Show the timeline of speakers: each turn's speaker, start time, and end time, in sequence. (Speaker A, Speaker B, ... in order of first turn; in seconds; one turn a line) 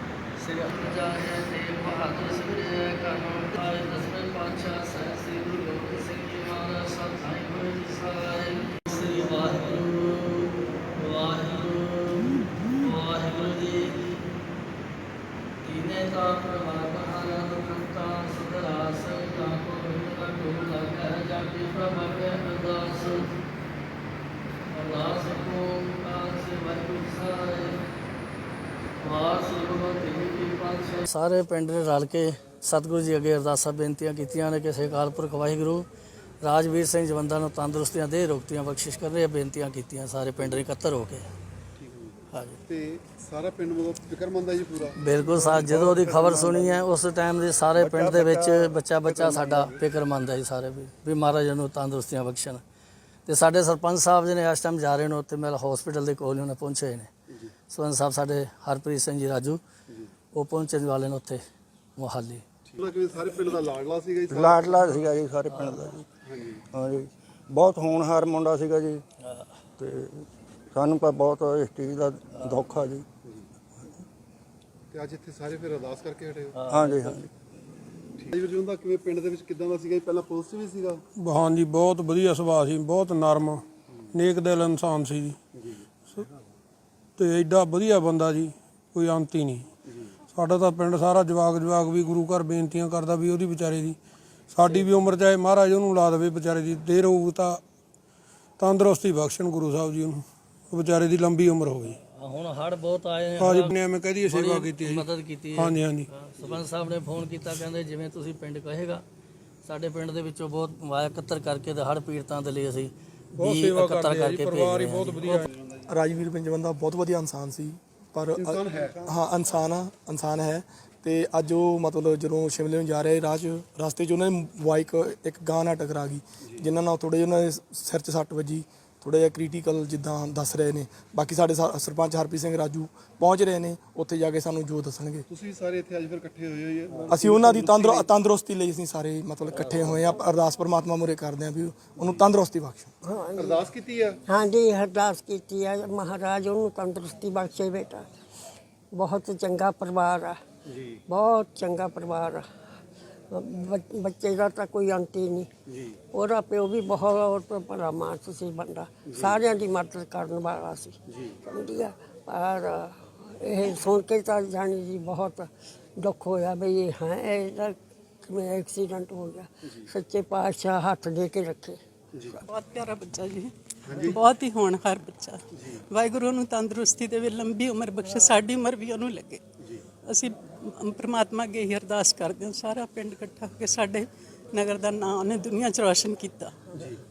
Speaker A: 0.4-14.0
Speaker A: 15.6-23.3
Speaker A: 24.7-27.8
Speaker A: 29.0-35.8
Speaker A: 36.4-41.2
Speaker B: 41.8-45.0
Speaker A: 42.3-42.6
Speaker A: 45.0-52.6
Speaker C: 45.4-46.8
Speaker C: 47.8-49.7
Speaker A: 53.2-57.1
Speaker A: 57.7-59.6
Speaker A: 60.3-61.4
Speaker A: 62.0-62.4
Speaker B: 62.7-65.1
Speaker C: 64.3-66.0
Speaker A: 65.5-65.9
Speaker B: 66.2-66.6
Speaker C: 66.7-69.0
Speaker C: 69.8-73.0
Speaker B: 74.9-76.5
Speaker A: 76.5-77.2
Speaker C: 76.6-77.3
Speaker B: 78.2-81.0
Speaker D: 81.2-85.4
Speaker D: 87.2-89.7
Speaker D: 90.3-94.0
Speaker D: 94.5-97.6
Speaker D: 98.6-102.0
Speaker A: 102.2-109.0
Speaker D: 103.4-106.1
Speaker A: 109.6-115.3
Speaker D: 113.4-115.5
Speaker B: 115.4-115.9
Speaker E: 115.9-135.3
Speaker B: 118.3-119.0
Speaker B: 135.3-138.1
Speaker E: 137.1-142.9
Speaker F: 143.0-143.6
Speaker B: 143.4-144.2
Speaker F: 144.3-148.1
Speaker F: 148.9-150.4
Speaker B: 150.7-151.0
Speaker F: 151.1-152.4
Speaker F: 153.3-155.5
Speaker B: 155.7-156.0
Speaker F: 156.1-165.5
Speaker B: 159.1-159.3
Speaker B: 161.1-161.3
Speaker F: 166.0-171.8
Speaker G: 172.4-179.4
Speaker B: 173.8-174.2
Speaker G: 180.1-186.7
Speaker B: 186.7-187.0